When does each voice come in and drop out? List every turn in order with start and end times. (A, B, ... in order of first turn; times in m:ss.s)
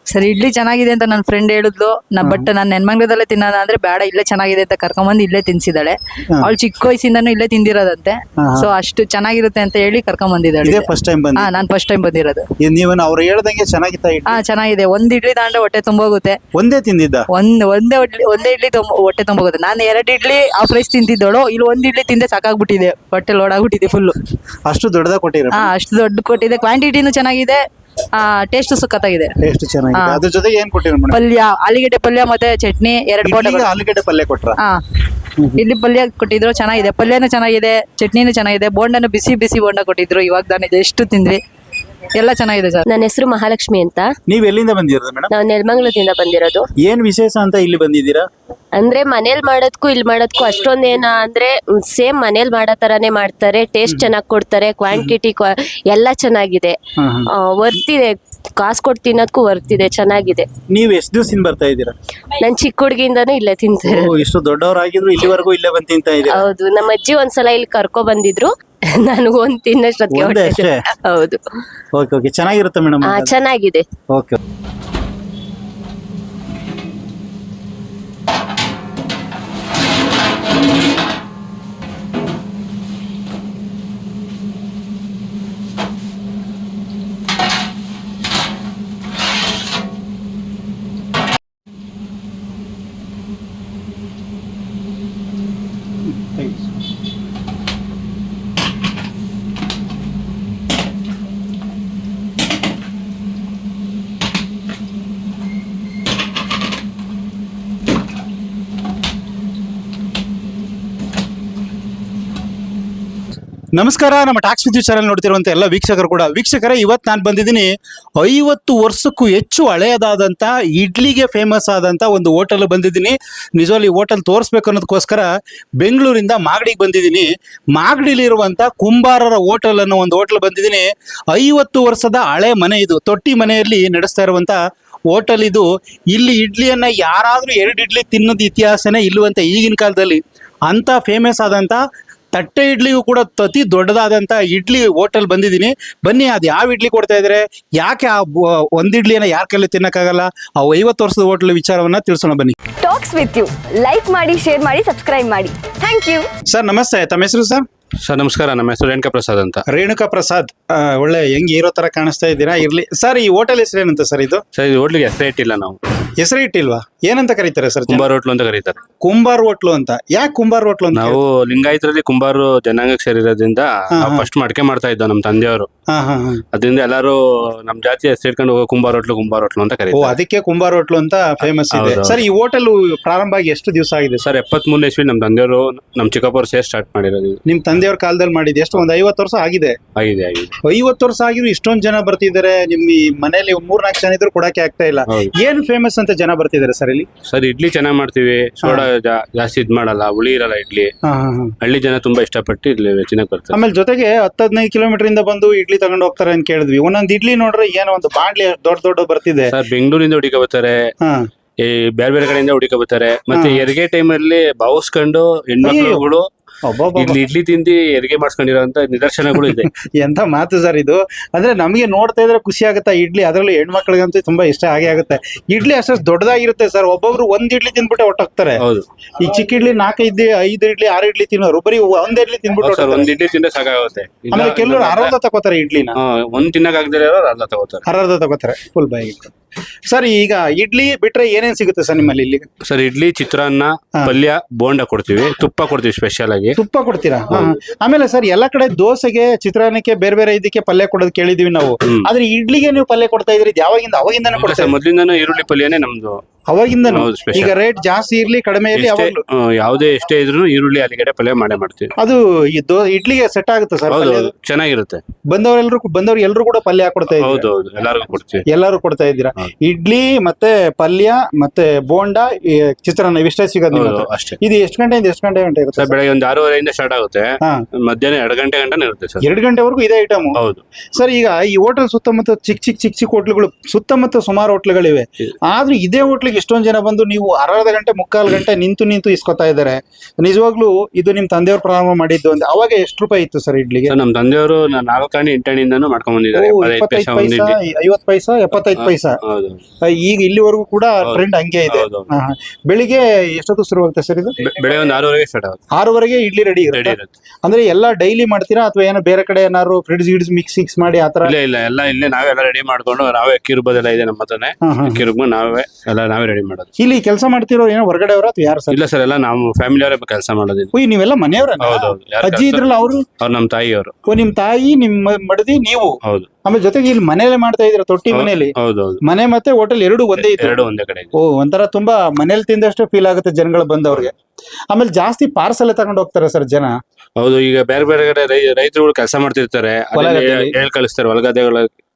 0:00.1-0:12.4 A
0:02.2-0:02.5 B
0:08.4-0:08.7 B
0:10.6-0:11.5 B
0:12.6-0:14.4 B
0:14.3-0:16.4 A
0:16.6-0:17.3 B
0:17.3-0:24.2 A
0:24.7-0:25.7 B
0:25.5-0:27.6 A
0:28.2-0:29.4 A
0:29.4-0:31.2 B
0:30.0-0:30.2 A
0:31.1-0:33.7 A
0:33.2-0:34.6 B
0:35.6-0:41.4 A
0:42.2-0:42.9 A
0:42.9-0:44.1 C
0:44.3-0:45.3 B
0:45.3-0:46.6 C
0:46.8-0:48.2 B
0:48.8-0:56.8 C
0:53.9-0:54.1 B
0:57.0-0:57.3 B
0:57.3-1:00.5 C
1:00.7-1:01.9 B
1:02.4-1:04.2 C
1:03.8-1:06.5 B
1:06.3-1:11.4 C
1:10.1-1:10.8 B
1:12.0-1:13.4 B
1:13.1-1:13.8 C
1:14.1-1:14.4 B
1:36.2-1:36.7 B
1:53.8-2:05.3 B
2:05.8-2:14.6 B
2:15.1-2:21.8 B
2:22.3-2:32.6 B
2:32.8-2:36.3 D
2:36.5-2:37.6 B
2:38.0-2:39.6 E
2:39.7-2:44.4 B
2:44.5-2:45.8 E
2:46.2-2:48.1 B
2:47.9-2:48.8 E
2:49.0-2:51.2 B
2:50.9-2:55.7 E
2:54.0-2:54.3 B
2:55.9-2:56.4 B
2:56.5-3:00.2 E
2:59.9-3:04.2 B
3:01.4-3:02.2 E
3:04.2-3:07.4 E
3:07.5-3:09.8 B
3:10.0-3:10.6 E
3:10.6-3:17.1 B
3:17.3-3:20.9 E
3:21.0-3:21.5 B
3:21.6-3:23.6 E
3:23.5-3:29.5 B
3:29.5-3:30.8 E
3:31.6-3:36.3 E
3:33.3-3:33.6 B
3:35.6-3:36.0 B
3:36.6-3:37.2 B
3:37.0-3:39.7 E
3:39.4-3:48.6 B
3:48.6-3:48.9 E
3:49.2-3:53.1 B
3:52.6-3:55.1 E
3:54.3-3:56.0 B
3:56.0-3:57.8 E
3:57.9-3:59.3 B
3:59.9-4:02.5 B
4:02.6-4:06.6 E
4:06.6-4:14.8 B
4:14.4-4:16.2 E
4:16.5-4:19.2 B
4:16.8-4:17.6 E
4:18.7-4:21.9 E
4:22.0-4:24.3 B
4:23.9-4:25.0 E
4:25.3-4:27.5 B
4:27.1-4:28.5 E
4:28.5-4:36.0 B
4:33.7-4:34.4 E
4:35.8-4:37.3 E
4:37.9-4:39.2 E
4:39.2-4:40.4 B
4:40.4-4:40.6 E
4:41.0-4:53.9 B
4:53.9-4:57.6 E
4:56.3-4:59.2 B
4:58.8-4:59.6 E
4:59.9-5:04.4 B
5:01.0-5:02.1 E
5:04.4-5:05.6 E
5:05.8-5:11.3 B
5:06.7-5:07.1 E
5:11.2-5:16.7 E
5:14.6-5:15.0 B
5:16.8-5:18.8 B
5:18.7-5:20.7 E
5:20.7-5:23.0 B
5:21.6-5:22.7 E
5:23.2-5:23.9 E
5:24.1-5:25.9 B
5:26.4-5:28.5 B
5:28.1-5:29.0 E
5:29.0-5:30.6 B
5:30.2-5:31.1 E
5:31.2-5:34.1 B
5:34.7-5:36.7 B
5:37.2-5:41.8 E
5:40.0-5:40.5 B